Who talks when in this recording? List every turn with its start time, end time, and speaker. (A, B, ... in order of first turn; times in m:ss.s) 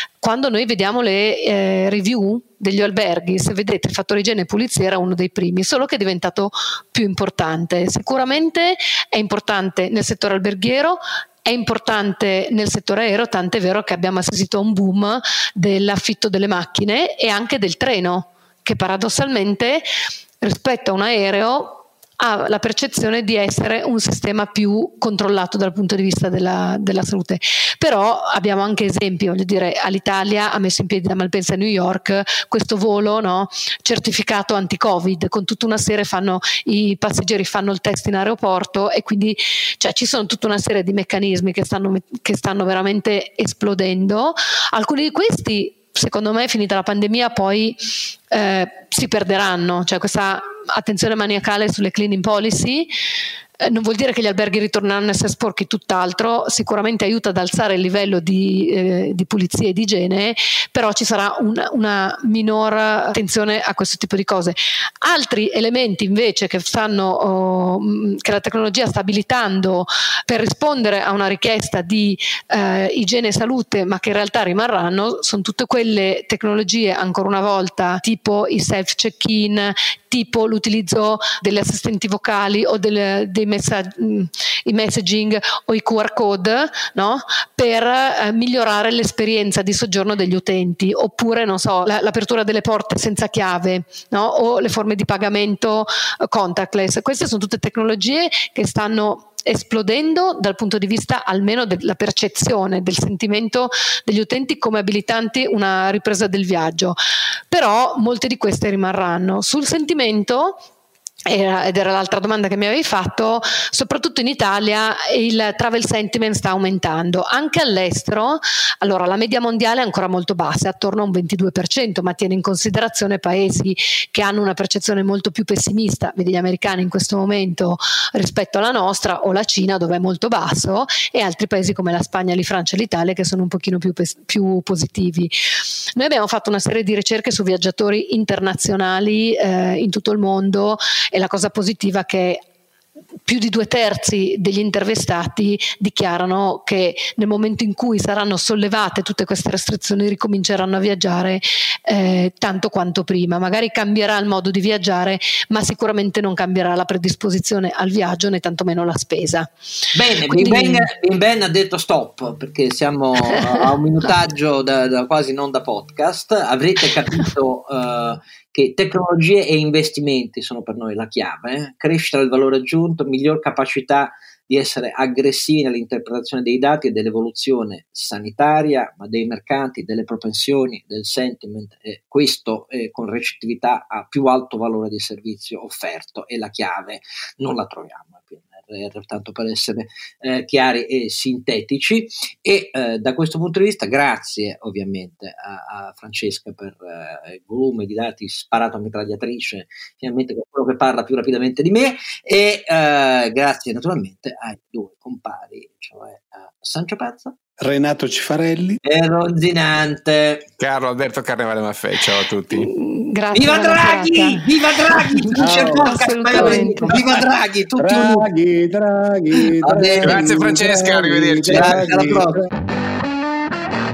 0:00.2-0:19.9 A
0:20.4-0:47.8 A
0:48.3-0:52.9 A
0:53.6-1:47.0 A
1:47.5-1:50.6 A
1:51.3-2:15.3 A
2:16.0-2:22.4 A
2:23.3-2:39.5 A
2:39.9-3:27.4 B
2:40.3-2:40.9 A
3:27.6-3:28.8 C
3:28.8-3:30.5 B
3:30.6-3:32.7 D
3:32.5-3:37.0 A
3:33.3-3:38.3 B
3:35.4-3:36.9 C
3:37.8-3:42.4 C
3:39.6-3:40.4 B
3:40.0-3:42.0 D
3:41.5-3:42.5 B